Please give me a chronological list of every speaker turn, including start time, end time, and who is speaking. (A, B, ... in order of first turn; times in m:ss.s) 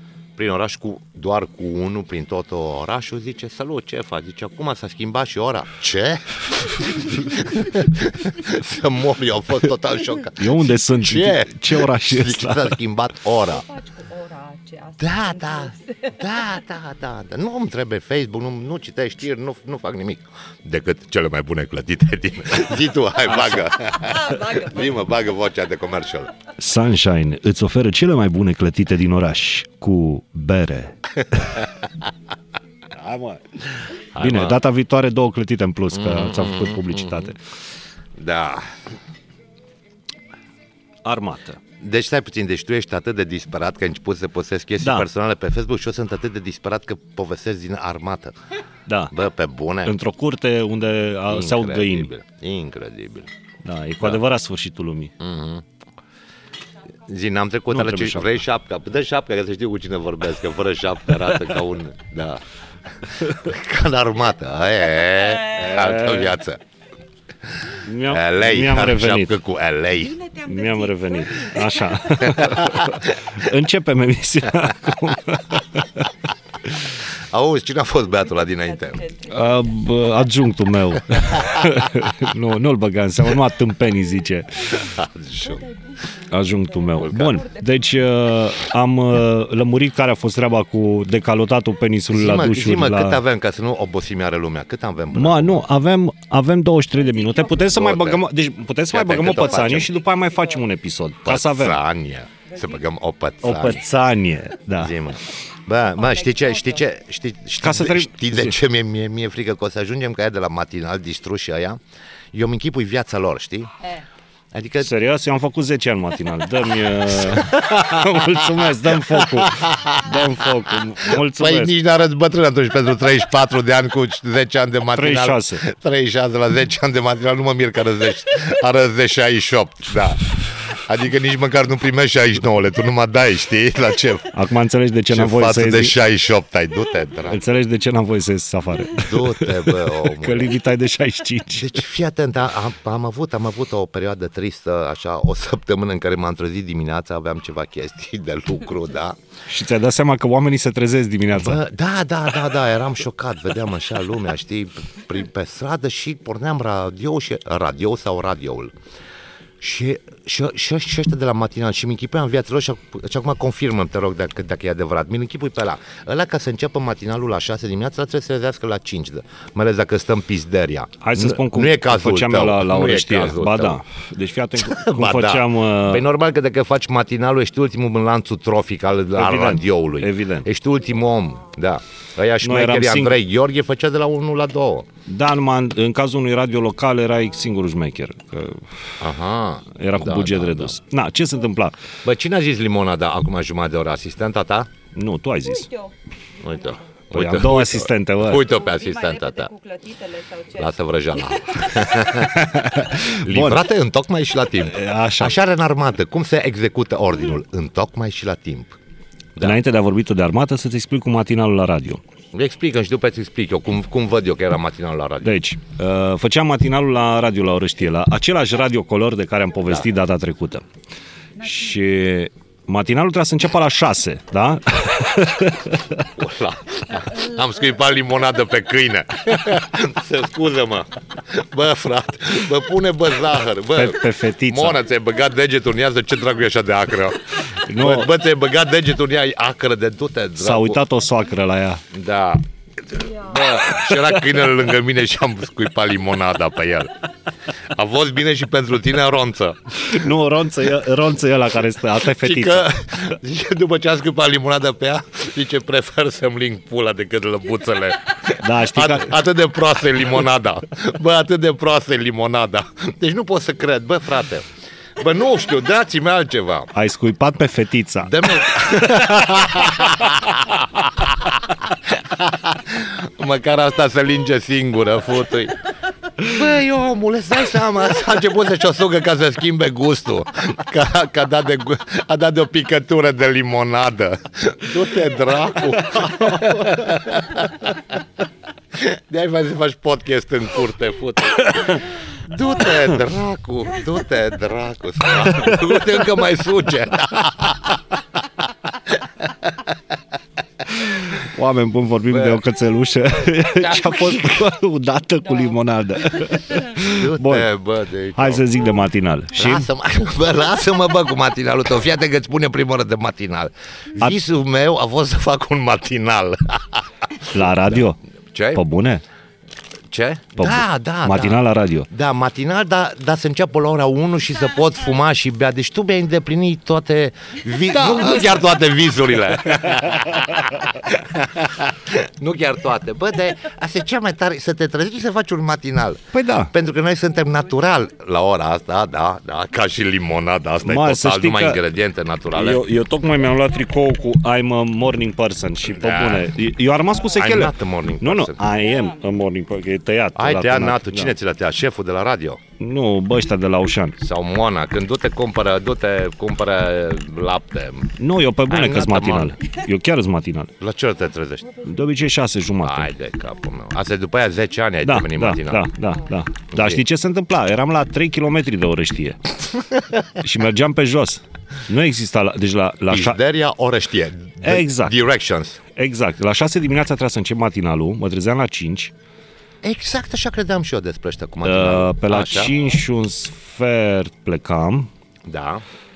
0:00.4-0:13.6 A
0:10.3-0:12.8 B
0:13.4-0:16.6 C
0:15.0-0:26.3 A
0:23.3-0:23.6 B
0:23.9-0:25.0 C
0:26.6-0:31.6 B
0:31.4-0:31.8 A
0:32.9-0:33.6 B
0:34.1-0:34.6 A
0:34.2-0:37.4 B
0:35.9-0:37.3 A
0:38.2-0:38.7 A
0:41.0-0:41.6 B
0:41.8-0:48.4 A
0:44.8-0:45.1 B
0:48.9-0:49.1 B
0:49.1-0:50.0 A
0:49.8-0:52.1 B
0:51.3-0:53.3 A
0:53.6-0:55.1 B
0:55.2-0:55.6 A
0:57.1-1:02.4 A
0:57.7-0:58.3 B
1:03.0-1:06.6 A
1:05.5-1:06.4 B
1:07.7-1:10.1 A
1:07.8-1:09.4 B
1:10.0-1:12.9 C
1:10.5-1:16.1 B
1:12.4-1:13.2 A
1:17.3-1:19.0 A
1:18.1-1:19.9 C
1:19.3-1:24.7 B
1:21.2-1:21.9 A
1:24.6-1:28.5 C
1:24.7-1:25.6 A
1:26.3-1:33.2 B
1:32.1-1:35.6 A
1:35.1-1:41.8 B
1:37.0-1:37.9 C
1:37.7-1:38.2 A
1:38.9-1:39.9 A
1:39.2-1:40.7 C
1:41.2-1:43.8 A
1:42.5-1:42.8 C
1:43.4-1:45.0 B
1:44.8-1:51.8 A
1:45.8-1:46.8 C
1:47.6-1:48.6 B
1:52.3-1:53.7 A
1:54.5-1:54.9 A
1:54.8-2:01.8 B
1:57.3-1:58.4 A
1:59.1-2:00.1 A
2:01.0-2:14.4 A
2:04.9-2:05.6 B
2:14.3-2:16.0 B
2:15.1-2:17.4 A
2:17.3-2:21.8 B
2:19.0-2:20.6 A
2:21.5-2:29.2 A
2:29.5-2:31.6 B
2:31.3-2:38.7 A
2:39.6-2:53.8 A
2:51.0-2:56.0 B
2:54.6-3:04.9 A
2:59.2-3:00.5 B
3:02.4-3:03.2 B
3:05.1-3:08.8 B
3:09.0-3:10.8 A
3:09.8-3:11.8 B
3:12.0-3:14.7 A
3:14.9-3:15.7 B
3:15.4-3:16.8 C
3:16.4-3:19.5 A
3:17.1-3:18.4 B
3:18.4-3:22.1 C
3:20.6-3:28.8 A
3:22.4-3:23.6 B
3:24.6-3:25.4 B
3:29.4-3:32.0 B
3:32.3-3:35.3 A
3:35.2-3:40.6 B
3:41.4-3:46.0 B
3:46.0-4:00.8 A
3:53.7-3:54.8 B
3:57.7-3:58.1 B
4:00.4-4:01.8 B
4:01.9-4:06.9 A
4:07.7-4:10.0 A
4:09.8-4:12.7 B
4:12.0-4:26.7 A
4:18.4-4:19.2 B
4:26.7-4:28.3 B
4:28.0-4:35.6 A
4:36.2-4:48.0 A
4:46.1-4:46.7 B
4:48.7-4:58.0 A
4:58.9-4:59.7 A
5:00.8-5:01.2 A
5:00.8-5:07.5 B
5:02.1-5:02.4 A
5:03.6-5:04.5 A
5:06.7-5:08.4 A
5:08.2-5:09.7 B
5:09.3-5:18.6 A
5:17.3-5:18.0 B
5:18.5-5:19.0 B
5:19.9-5:42.6 A
5:20.4-5:21.9 B
5:27.7-5:28.2 B
5:36.1-5:36.5 B
5:40.6-5:41.6 B
5:42.3-5:51.1 B
5:45.7-5:46.4 A
5:47.2-5:48.4 A
5:48.7-5:49.1 C
5:50.2-5:52.4 A
5:52.6-5:54.0 B
5:54.0-5:59.3 A
5:58.0-6:00.5 B
6:00.6-6:01.6 A
6:01.6-6:02.9 B
6:02.6-6:05.7 A
6:04.8-6:09.3 B
6:06.5-6:06.8 A
6:10.2-6:13.2 B
6:12.9-6:15.6 A
6:14.4-6:15.0 B
6:15.8-6:18.9 B
6:19.6-6:22.5 A
6:21.4-6:24.9 B
6:25.3-6:25.6 A